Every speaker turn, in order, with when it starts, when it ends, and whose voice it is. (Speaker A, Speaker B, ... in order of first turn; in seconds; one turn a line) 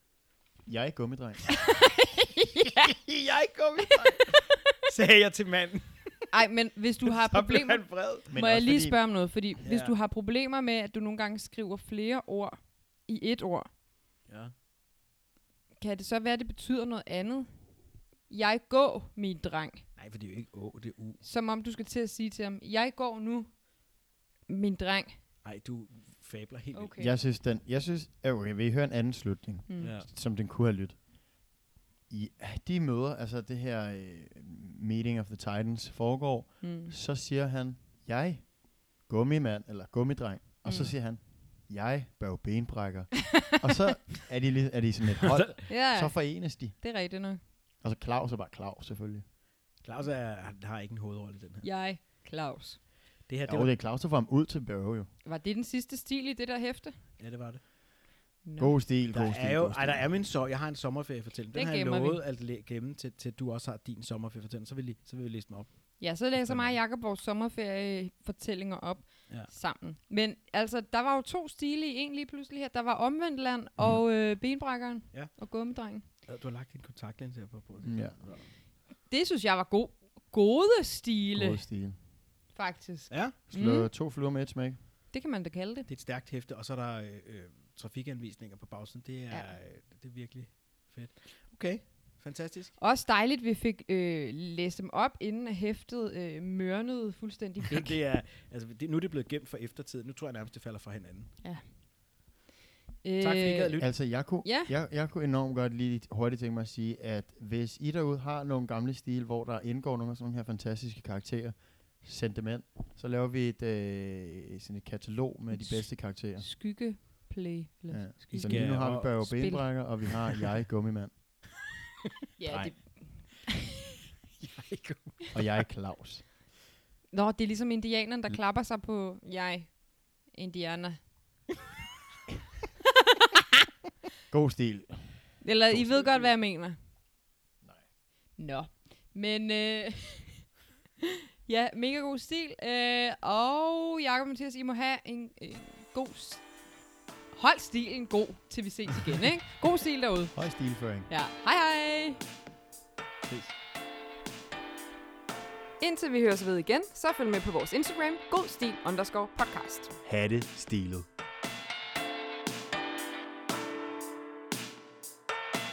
Speaker A: 0.7-1.6
Speaker B: 1.5-3.0
Speaker C: 2.9-6.3
Speaker B: 6.3-13.7
Speaker C: 7.0-8.3
Speaker A: 8.3-9.0
Speaker C: 9.6-9.9
Speaker C: 14.3-14.5
Speaker B: 15.8-17.8
Speaker B: 18.3-19.9
Speaker C: 19.9-21.2
Speaker B: 21.2-23.7
Speaker B: 24.4-25.2
Speaker C: 25.4-26.9
Speaker B: 26.7-27.1
Speaker A: 27.0-31.1
Speaker B: 29.7-29.9
Speaker C: 29.8-30.1
Speaker A: 32.1-46.8
Speaker B: 36.6-36.9
Speaker B: 40.6-40.9
Speaker B: 45.7-47.4
Speaker A: 47.8-49.2
Speaker C: 49.8-51.7
Speaker B: 51.6-52.8
Speaker C: 53.3-53.7
Speaker A: 53.5-55.1
Speaker B: 55.2-57.0
Speaker C: 57.2-57.6
Speaker B: 58.4-58.8
Speaker A: 58.6-60.1
Speaker C: 59.1-66.8
Speaker B: 61.5-62.2
Speaker B: 66.0-76.1
Speaker C: 75.1-75.4
Speaker C: 76.1-78.4
Speaker A: 77.8-78.4
Speaker B: 79.0-81.6
Speaker A: 81.3-82.0
Speaker B: 82.5-83.9
Speaker C: 83.1-83.3
Speaker A: 83.5-84.8
Speaker B: 85.1-85.9
Speaker C: 85.9-92.8
Speaker B: 89.3-89.6
Speaker B: 92.8-98.0
Speaker C: 97.7-101.3
Speaker B: 101.4-101.7
Speaker B: 103.0-103.7
Speaker C: 103.2-103.9
Speaker A: 103.8-116.5
Speaker B: 104.4-104.7
Speaker B: 115.5-119.8
Speaker A: 117.9-121.1
Speaker C: 118.3-119.4
Speaker B: 122.4-123.5
Speaker A: 122.5-122.8
Speaker C: 124.4-125.2
Speaker A: 125.3-126.2
Speaker B: 127.1-131.1
Speaker A: 134.3-136.3
Speaker B: 135.4-136.8
Speaker B: 138.4-140.5
Speaker B: 141.4-146.5
Speaker B: 147.3-152.2
Speaker A: 150.3-151.1
Speaker A: 153.2-153.5
Speaker B: 155.8-159.9
Speaker A: 160.0-161.1